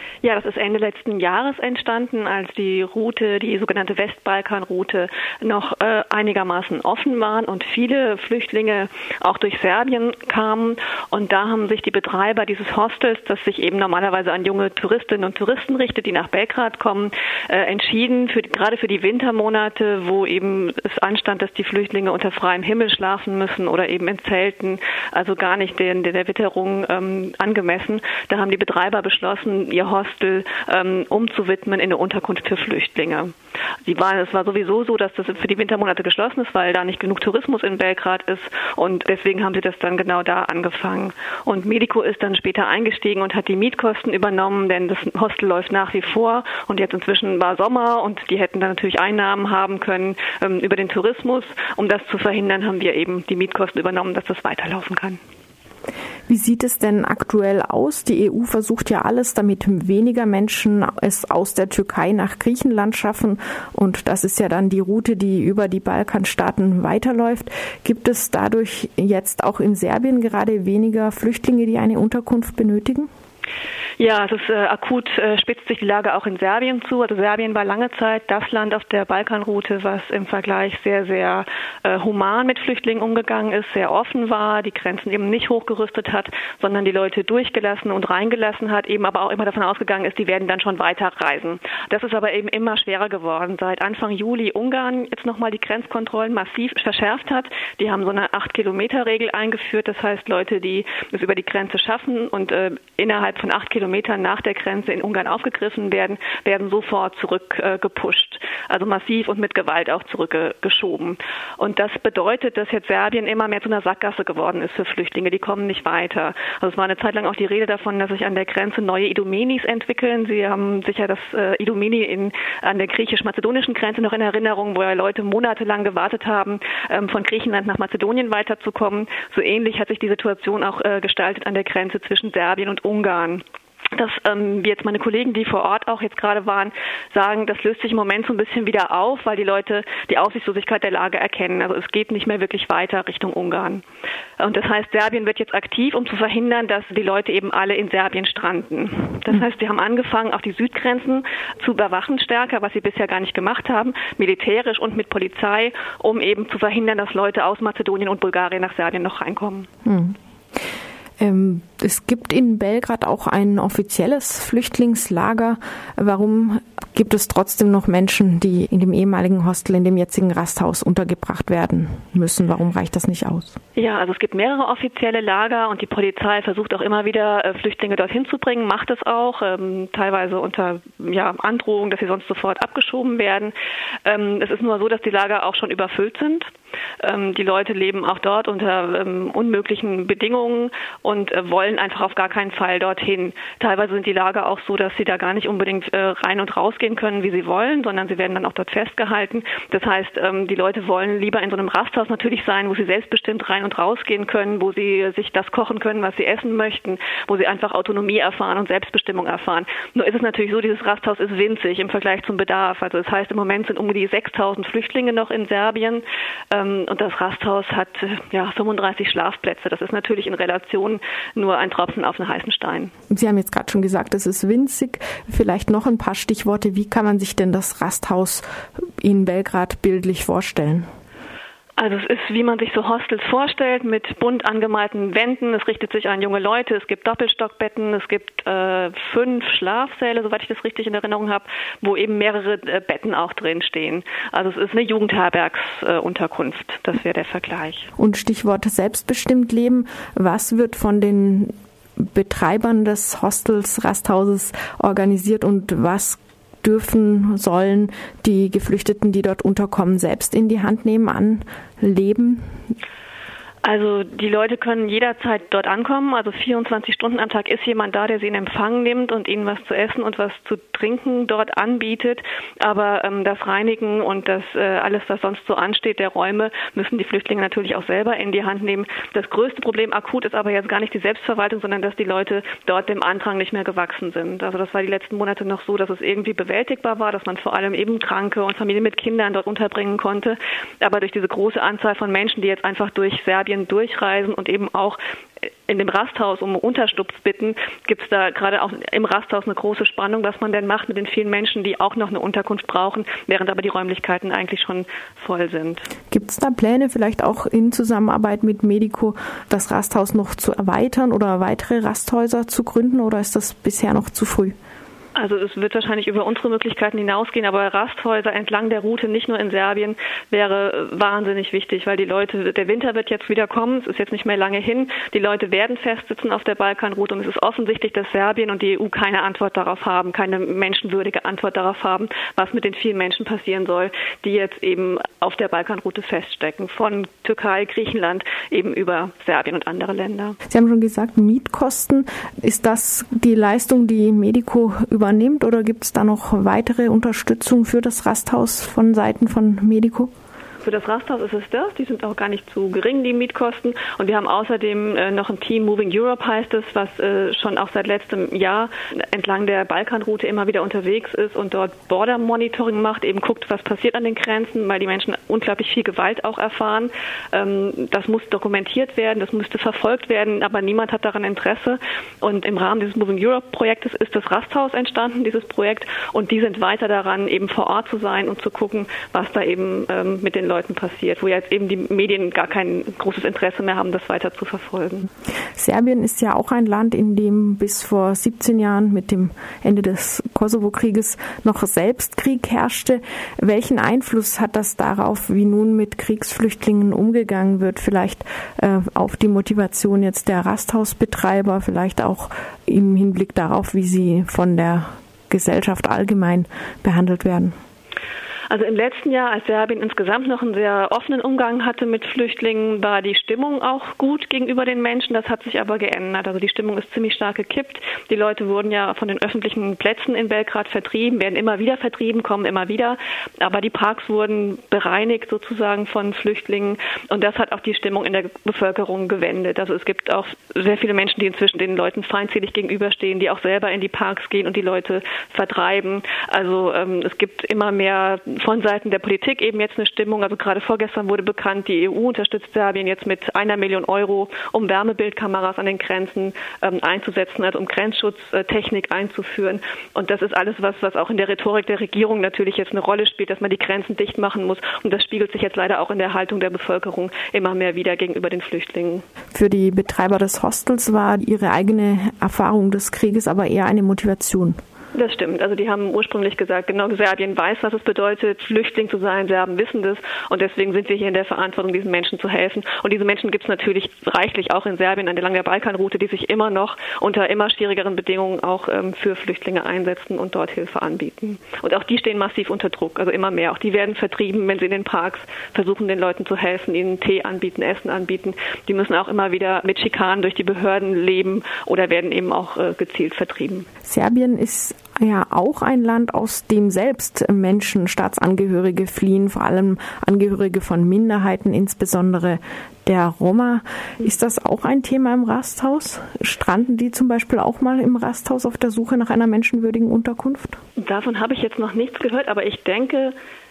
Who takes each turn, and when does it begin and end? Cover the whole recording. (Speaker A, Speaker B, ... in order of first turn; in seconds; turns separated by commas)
Speaker A: 0.2-33.3, Speaker A: 33.9-55.2, Speaker B: 56.3-73.1, Speaker A: 74.0-143.8, Speaker A: 144.4-159.7, Speaker B: 159.8-160.2, Speaker B: 161.2-173.6, Speaker A: 173.8-183.5, Speaker A: 184.1-186.5, Speaker A: 187.0-222.9, Speaker B: 223.1-228.4, Speaker B: 229.0-230.9, Speaker A: 231.8-247.9, Speaker B: 248.0-262.5, Speaker A: 263.6-295.0, Speaker A: 295.7-305.9, Speaker B: 306.1-314.6, Speaker A: 315.1-340.4, Speaker B: 340.5-350.1, Speaker A: 350.6-385.1, Speaker B: 385.6-407.5, Speaker A: 408.5-459.1, Speaker B: 459.3-464.6, Speaker A: 464.9-493.7, Speaker B: 493.8-510.6, Speaker A: 510.8-513.1